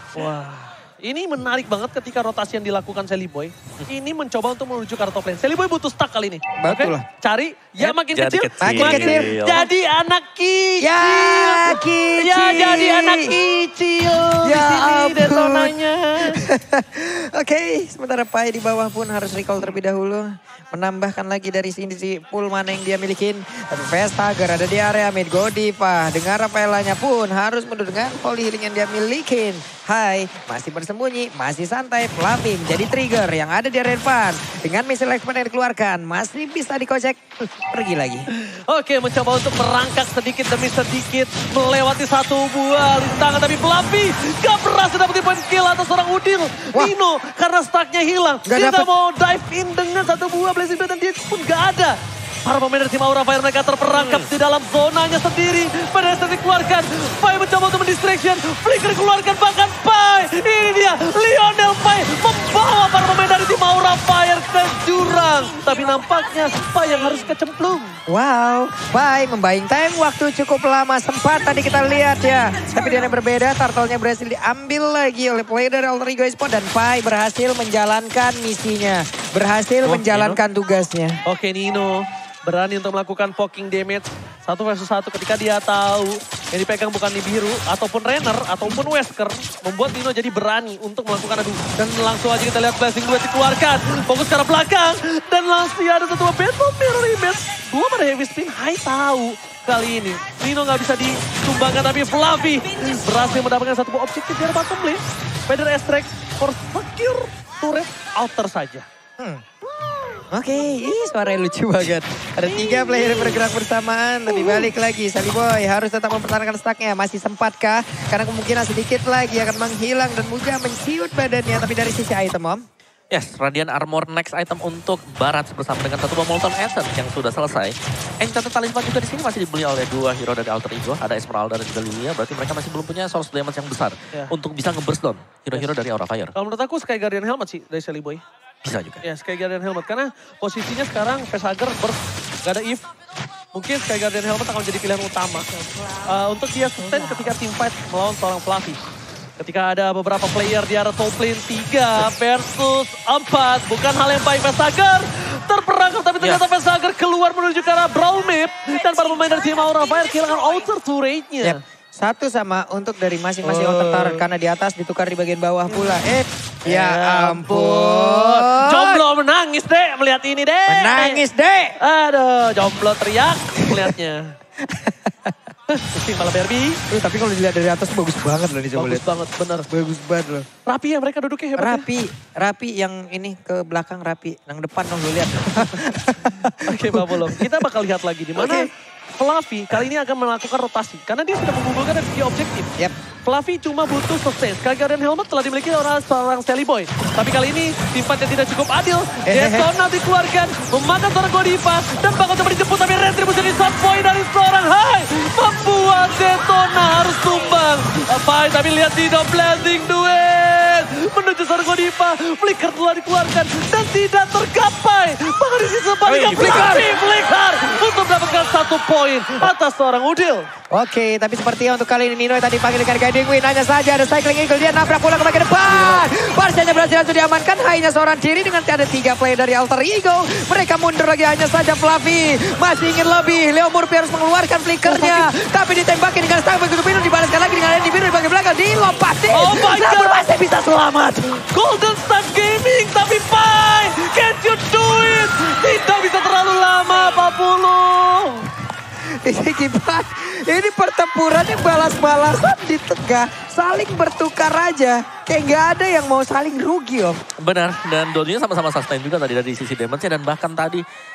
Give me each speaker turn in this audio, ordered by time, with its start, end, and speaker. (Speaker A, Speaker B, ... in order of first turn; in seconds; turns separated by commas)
Speaker A: 0.1-16.4, Speaker B: 6.6-7.0, Speaker C: 7.8-9.7, Speaker B: 8.6-9.3, Speaker B: 10.8-13.3, Speaker B: 14.4-15.7, Speaker B: 16.4-38.2, Speaker A: 38.3-68.0, Speaker B: 48.5-48.9, Speaker C: 53.9-54.3, Speaker B: 68.1-81.2, Speaker C: 79.8-80.4, Speaker A: 81.2-108.9, Speaker B: 110.3-122.6, Speaker A: 112.4-113.4, Speaker A: 114.3-114.7, Speaker C: 123.1-136.3, Speaker A: 136.3-138.2, Speaker C: 138.6-139.0, Speaker A: 139.0-142.8, Speaker A: 143.5-145.5, Speaker A: 146.0-148.8, Speaker A: 149.4-161.6, Speaker B: 161.4-169.0, Speaker A: 163.4-164.2, Speaker A: 166.6-171.2, Speaker B: 170.7-171.8, Speaker A: 171.8-174.3, Speaker B: 173.6-173.9, Speaker B: 174.6-175.3, Speaker A: 175.7-176.8, Speaker B: 176.9-179.0, Speaker A: 178.7-179.7, Speaker B: 179.7-180.5, Speaker A: 180.6-181.9, Speaker B: 181.6-187.6, Speaker A: 186.6-192.7, Speaker B: 188.4-188.7, Speaker A: 193.2-220.5, Speaker B: 199.2-199.7, Speaker C: 216.1-216.8, Speaker B: 216.1-216.8, Speaker B: 220.7-241.2, Speaker A: 225.7-226.1, Speaker A: 234.8-235.3, Speaker A: 239.3-240.5, Speaker A: 241.2-248.5, Speaker B: 249.2-257.2, Speaker C: 257.4-260.8